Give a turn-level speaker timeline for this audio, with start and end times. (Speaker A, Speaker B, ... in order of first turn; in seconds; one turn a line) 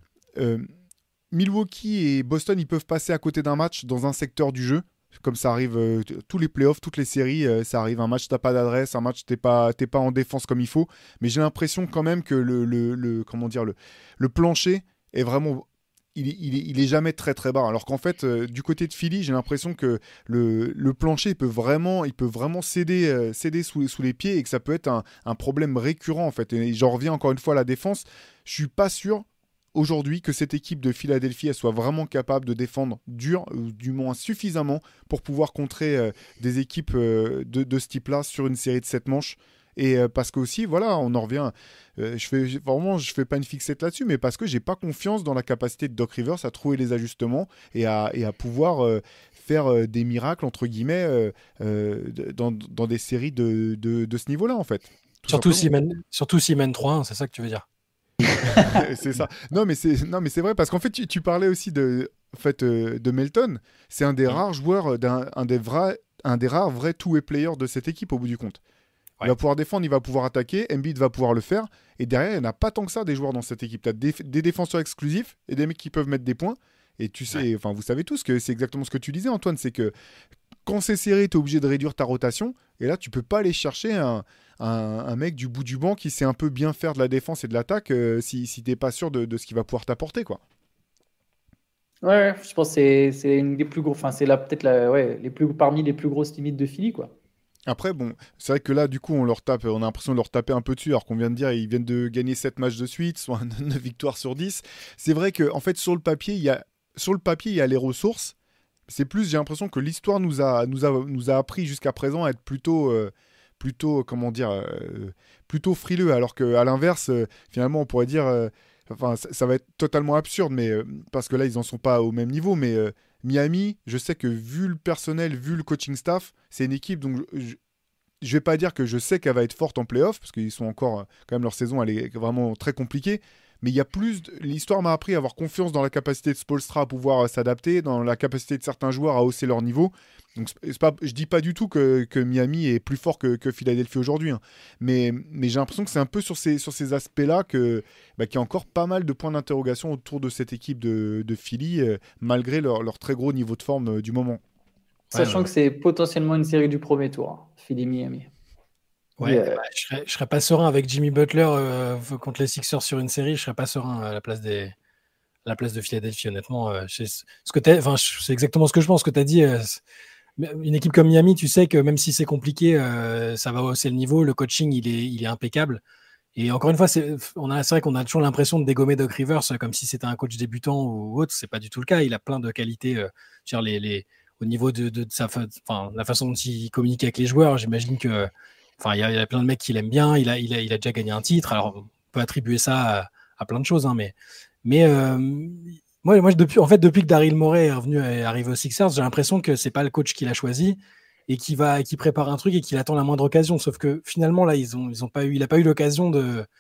Speaker A: 0.4-0.7
Speaker A: 1.3-55.7
Speaker B: 55.3-57.6
Speaker A: 58.6-68.6
Speaker A: 69.2-79.9
Speaker A: 80.7-90.4
Speaker C: 92.0-97.1
Speaker A: 97.7-108.3
Speaker A: 108.9-127.6
Speaker A: 128.2-154.4
Speaker B: 155.1-155.5
Speaker C: 155.1-158.3
Speaker B: 159.2-164.7
Speaker C: 159.2-159.6
Speaker B: 165.4-169.8
Speaker B: 170.4-175.8
Speaker B: 176.4-194.1
Speaker B: 194.7-206.5